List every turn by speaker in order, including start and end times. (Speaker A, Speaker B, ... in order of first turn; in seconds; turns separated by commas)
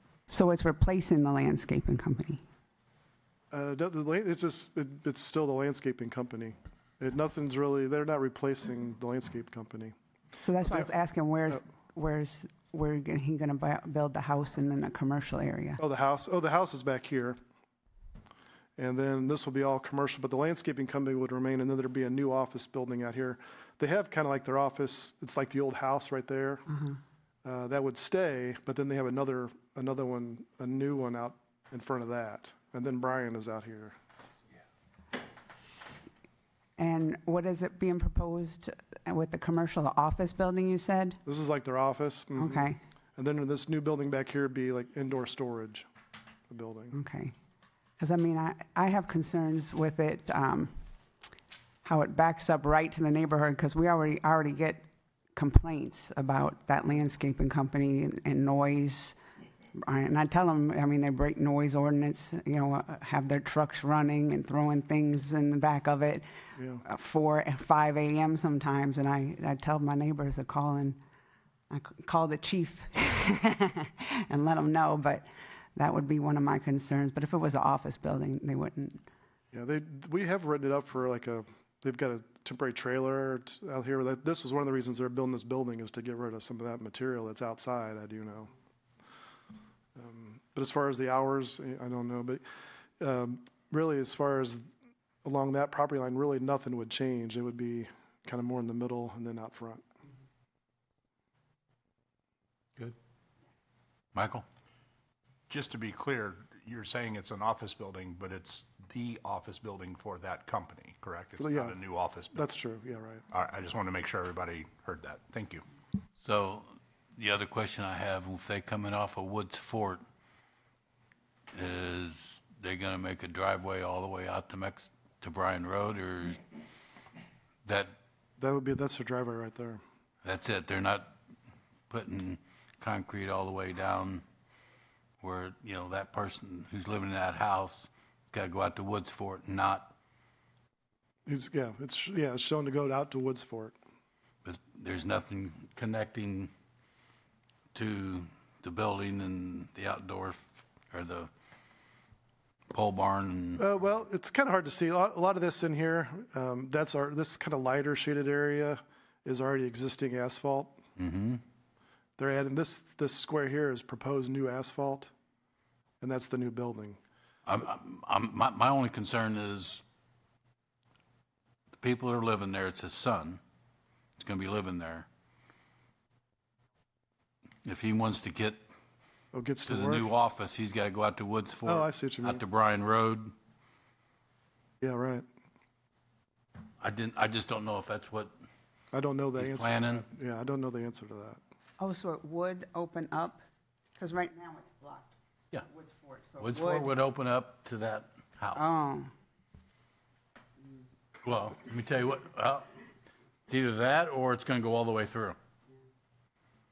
Speaker A: 0.3-2.4, Speaker B: 3.5-9.9, Speaker A: 10.4-15.8, Speaker B: 10.6-10.9, Speaker B: 15.8-17.4, Speaker B: 18.8-26.7, Speaker B: 27.4-34.0, Speaker A: 36.8-41.2, Speaker B: 41.2-45.9, Speaker A: 42.4-42.8, Speaker B: 46.5-47.0, Speaker A: 46.9-47.3, Speaker A: 48.0-50.7, Speaker A: 51.8-59.2, Speaker A: 59.7-66.2, Speaker B: 66.5-66.8, Speaker A: 66.8-71.0, Speaker A: 71.7-79.0, Speaker B: 79.5-88.5, Speaker B: 90.0-92.4, Speaker B: 93.0-94.7, Speaker B: 95.2-99.8, Speaker C: 104.1-104.5, Speaker D: 105.5-112.5, Speaker B: 111.4-111.8, Speaker B: 112.3-113.2, Speaker D: 113.3-115.7, Speaker C: 116.2-120.0, Speaker C: 121.5-126.4, Speaker C: 127.7-127.9, Speaker B: 128.4-129.8, Speaker C: 130.2-131.1, Speaker C: 131.9-134.2, Speaker C: 135.2-139.9, Speaker B: 141.3-143.8, Speaker C: 144.4-146.5, Speaker C: 147.7-151.3, Speaker C: 152.7-153.7, Speaker B: 153.6-160.8, Speaker C: 161.0-161.4, Speaker B: 162.2-165.1, Speaker B: 166.0-167.0, Speaker C: 167.5-169.8, Speaker C: 171.8-173.4, Speaker C: 174.2-175.1, Speaker C: 177.6-178.7, Speaker B: 179.3-180.1, Speaker C: 179.7-183.3, Speaker B: 181.7-182.4, Speaker B: 184.8-185.3, Speaker C: 186.8-188.3, Speaker B: 188.9-191.4, Speaker C: 189.4-190.1, Speaker A: 191.8-193.4, Speaker A: 193.9-196.9, Speaker C: 196.4-198.7, Speaker A: 198.5-199.1, Speaker C: 201.2-202.7, Speaker C: 203.5-205.4